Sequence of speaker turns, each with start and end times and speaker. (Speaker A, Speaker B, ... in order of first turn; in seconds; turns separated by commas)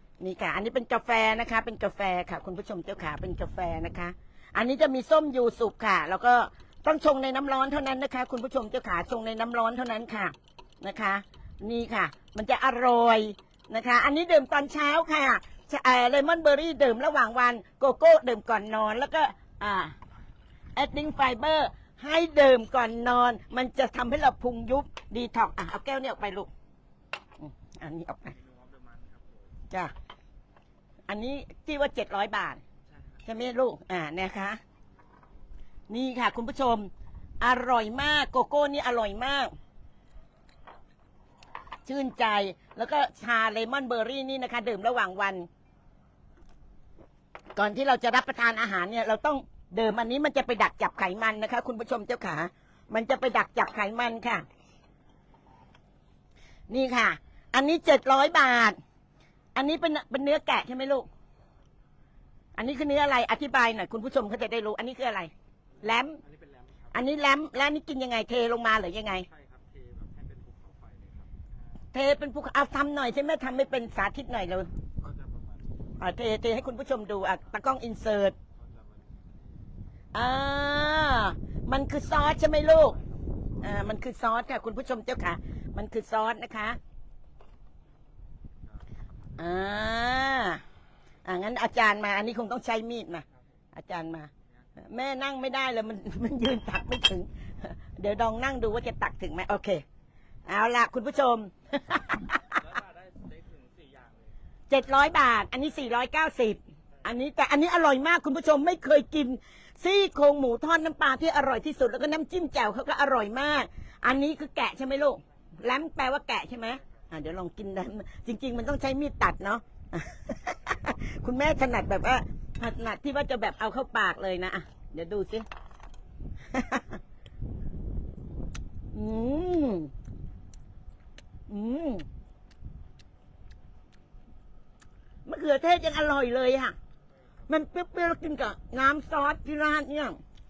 Speaker A: 0.2-19.9, Speaker A: 20.8-26.5, Speaker A: 27.4-28.3, Speaker B: 28.3-29.5, Speaker A: 31.1-32.6, Speaker A: 33.2-34.6, Speaker A: 35.9-39.5, Speaker A: 41.9-45.5, Speaker A: 47.5-54.4, Speaker A: 56.7-58.8, Speaker A: 59.5-61.1, Speaker A: 62.6-65.3, Speaker A: 65.8-66.2, Speaker B: 66.2-66.9, Speaker A: 66.9-69.3, Speaker B: 69.3-71.3, Speaker A: 71.9-74.7, Speaker B: 75.0-75.7, Speaker A: 76.0-78.3, Speaker B: 78.6-79.2, Speaker A: 80.1-83.0, Speaker A: 83.6-86.8, Speaker A: 89.4-90.6, Speaker A: 91.2-99.8, Speaker A: 100.5-102.6, Speaker B: 102.6-104.3, Speaker A: 104.7-125.5, Speaker A: 126.5-127.0, Speaker A: 128.9-129.9, Speaker A: 131.5-132.1, Speaker A: 135.2-136.7, Speaker A: 137.5-140.2